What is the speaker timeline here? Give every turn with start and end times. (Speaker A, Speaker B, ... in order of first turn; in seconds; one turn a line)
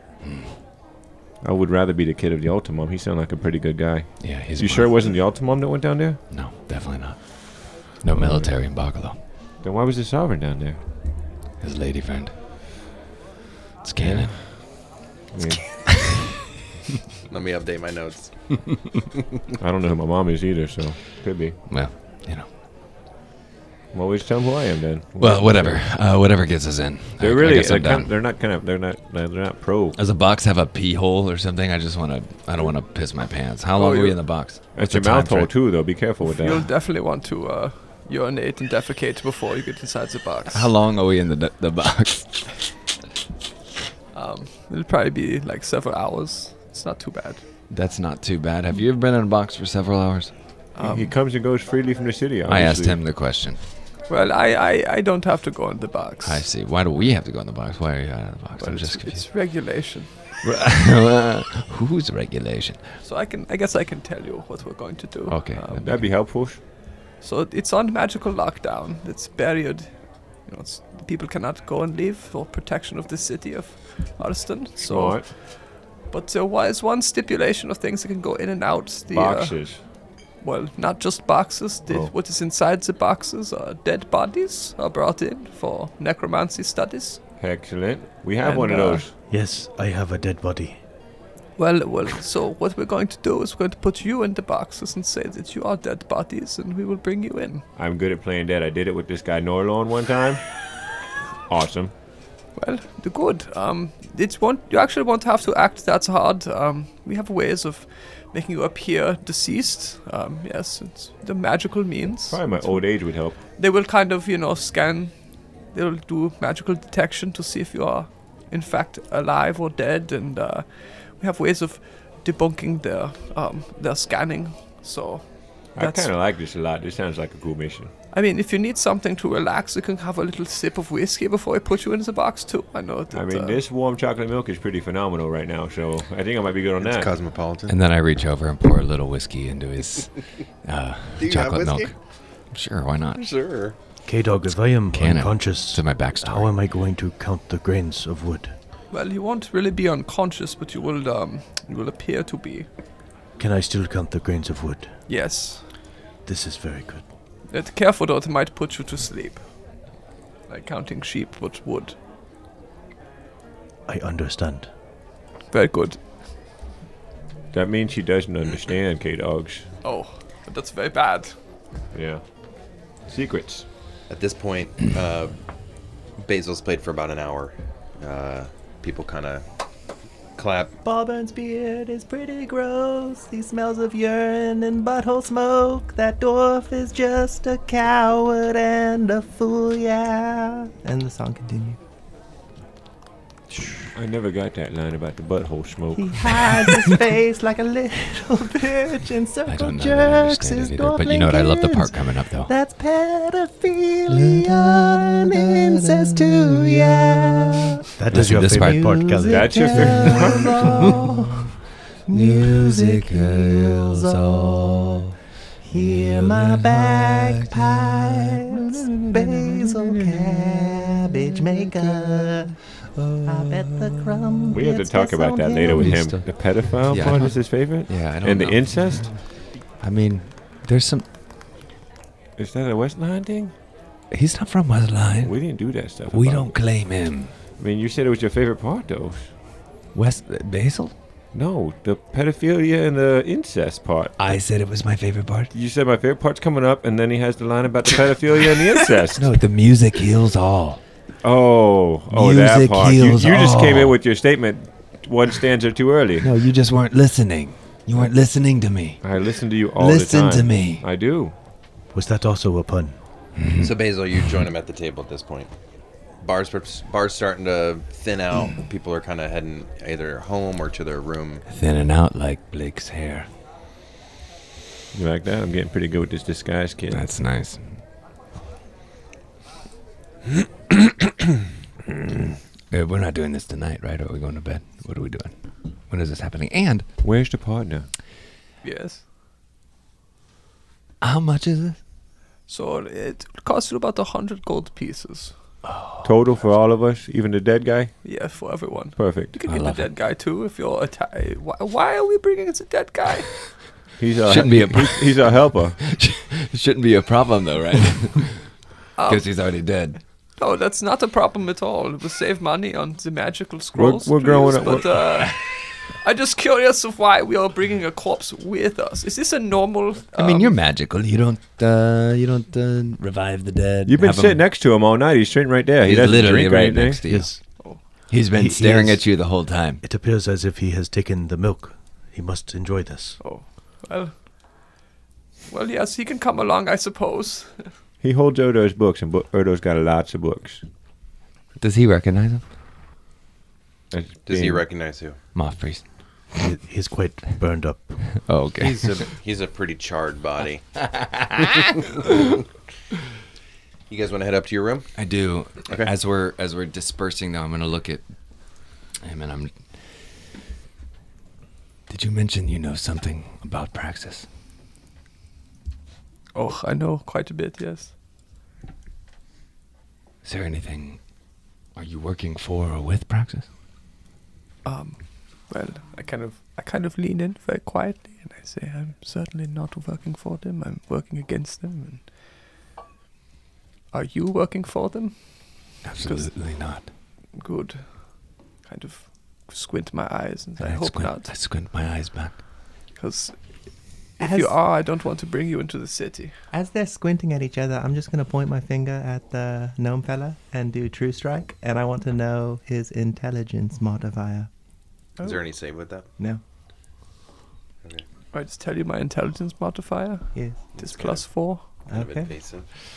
Speaker A: 0.2-0.6
Speaker B: 1.4-6.2
Speaker A: 4.2-5.2
Speaker A: 6.3-9.2
Speaker B: 8.2-8.5
Speaker B: 9.6-10.9
Speaker A: 11.6-12.4
Speaker A: 13.8-14.9
Speaker B: 14.0-15.8
Speaker C: 17.3-18.9
Speaker B: 19.6-21.6
Speaker A: 21.7-22.5
Speaker B: 23.9-25.9
Speaker A: 25.2-28.1
Speaker B: 27.2-30.0
Speaker A: 29.9-35.7
Speaker D: 33.7-34.4
Speaker B: 34.7-36.7
Speaker D: 36.2-40.7
Speaker A: 40.5-42.6
Speaker D: 44.1-47.5
Speaker A: 47.7-50.4
Speaker D: 50.8-51.2
Speaker B: 50.8-53.0
Speaker A: 52.5-53.6
Speaker D: 54.1-56.5
Speaker A: 56.2-59.3
Speaker D: 58.6-60.3
Speaker A: 60.4-63.0
Speaker D: 63.0-65.9
Speaker A: 65.3-66.2
Speaker B: 65.8-66.6
Speaker D: 67.2-79.8
Speaker B: 74.8-75.3
Speaker B: 79.1-79.8
Speaker D: 80.4-87.2
Speaker B: 81.9-82.1
Speaker B: 87.4-89.1
Speaker D: 88.4-89.1
Speaker E: 89.2-90.8
Speaker D: 91.6-97.6
Speaker B: 97.8-100.5
Speaker B: 101.5-101.9
Speaker D: 102.5-126.1
Speaker B: 112.3-113.4
Speaker B: 125.8-127.9
Speaker D: 128.1-133.6
Speaker B: 133.1-137.1
Speaker C: 136.8-137.8
Speaker A: 137.7-142.0
Speaker C: 141.2-141.9
Speaker A: 142.5-143.3
Speaker C: 143.2-143.8
Speaker E: 144.1-148.6
Speaker A: 144.9-146.6
Speaker D: 148.9-152.7
Speaker E: 153.4-154.9
Speaker D: 155.1-155.7
Speaker E: 156.2-157.1
Speaker D: 157.5-159.7
Speaker D: 160.5-162.0
Speaker E: 163.9-164.7
Speaker D: 165.5-166.0
Speaker B: 167.5-169.7
Speaker D: 169.8-171.3
Speaker B: 171.9-172.2
Speaker B: 173.1-173.7
Speaker C: 174.1-175.4
Speaker C: 176.2-179.4
Speaker C: 180.4-180.7
Speaker F: 180.8-191.8
Speaker B: 193.9-196.5
Speaker F: 196.0-211.5
Speaker A: 199.5-202.5
Speaker A: 204.1-209.0
Speaker E: 208.0-210.1
Speaker B: 209.3-210.7
Speaker A: 209.8-211.4
Speaker F: 212.1-215.0
Speaker A: 212.1-215.1
Speaker F: 215.6-222.6
Speaker A: 215.7-224.5
Speaker F: 223.2-226.2
Speaker B: 224.5-229.1
Speaker A: 225.8-231.1
Speaker B: 232.4-233.5
Speaker A: 234.1-237.3
Speaker B: 235.2-236.6
Speaker B: 237.6-239.3
Speaker A: 239.9-240.9
Speaker B: 241.3-244.2
Speaker A: 244.2-245.5
Speaker B: 245.5-249.3
Speaker A: 249.2-250.8
Speaker B: 251.2-256.3
Speaker A: 252.1-254.0
Speaker A: 256.2-259.1
Speaker B: 259.0-261.4
Speaker A: 259.7-260.8
Speaker E: 261.9-263.0
Speaker A: 263.4-264.4
Speaker C: 263.6-265.5
Speaker C: 266.2-271.4
Speaker A: 271.5-273.3
Speaker B: 274.9-277.1
Speaker A: 276.9-277.8
Speaker A: 282.7-286.9
Speaker B: 287.0-287.9
Speaker D: 288.6-289.0
Speaker A: 291.0-291.8
Speaker D: 292.5-295.4
Speaker A: 295.6-296.2
Speaker B: 296.0-298.1
Speaker D: 298.0-303.7
Speaker B: 298.9-299.4
Speaker A: 299.4-299.9
Speaker B: 304.0-305.8
Speaker A: 304.3-310.0
Speaker D: 309.0-309.9
Speaker D: 310.4-320.6
Speaker B: 313.8-314.9
Speaker A: 314.9-315.4
Speaker A: 320.1-324.4
Speaker B: 323.9-327.0
Speaker A: 325.8-329.8
Speaker E: 327.1-327.5
Speaker D: 327.6-328.1
Speaker E: 328.2-329.2
Speaker E: 329.8-333.2
Speaker D: 333.2-334.1
Speaker D: 335.5-337.7
Speaker B: 338.0-340.6
Speaker A: 341.6-342.5
Speaker B: 343.9-344.6
Speaker C: 344.3-345.2
Speaker A: 345.3-346.3
Speaker E: 346.3-348.2
Speaker A: 348.2-349.1
Speaker C: 348.6-350.7
Speaker A: 351.0-351.4
Speaker C: 353.9-354.9
Speaker A: 355.0-358.1
Speaker C: 355.7-355.9
Speaker A: 359.0-359.7
Speaker A: 361.9-364.3
Speaker D: 366.3-367.9
Speaker A: 370.2-371.0
Speaker A: 371.8-373.5
Speaker D: 374.6-382.1
Speaker D: 383.9-386.3
Speaker A: 385.8-386.9
Speaker D: 387.4-391.3
Speaker A: 390.6-392.4
Speaker D: 392.9-393.4
Speaker D: 393.9-396.4
Speaker F: 394.2-394.5
Speaker F: 396.5-404.5
Speaker D: 405.2-405.4
Speaker C: 405.2-406.1
Speaker D: 408.3-411.8
Speaker F: 410.3-410.6
Speaker C: 410.7-412.7
Speaker F: 411.9-412.3